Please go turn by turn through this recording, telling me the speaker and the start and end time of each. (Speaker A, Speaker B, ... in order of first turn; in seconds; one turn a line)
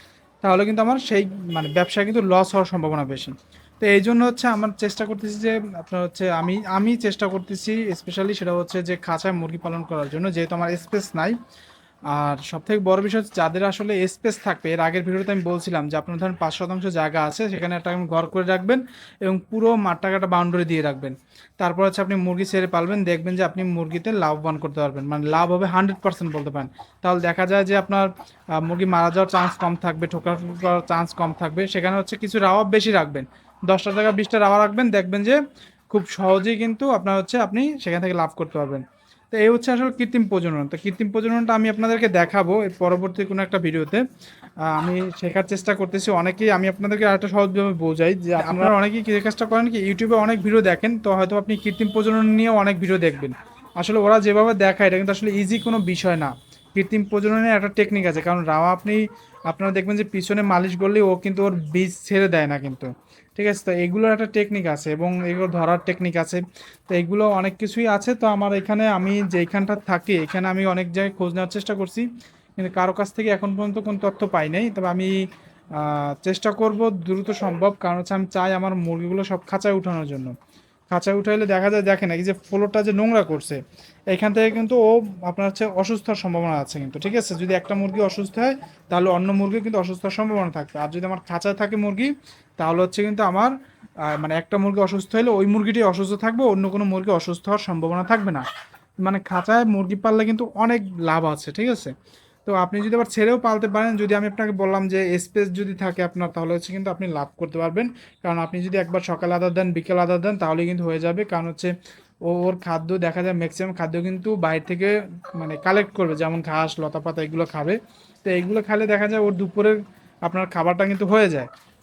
Speaker A: 0.4-11.3
Speaker A: 12.1-35.4
Speaker A: 35.9-44.0
Speaker A: 44.7-72.0
Speaker A: 72.6-75.1
Speaker A: 75.8-80.3
Speaker A: 80.9-83.6
Speaker A: 84.1-93.5
Speaker A: 94.1-98.5
Speaker A: 99.0-101.9
Speaker A: 102.4-111.7
Speaker A: 112.2-121.5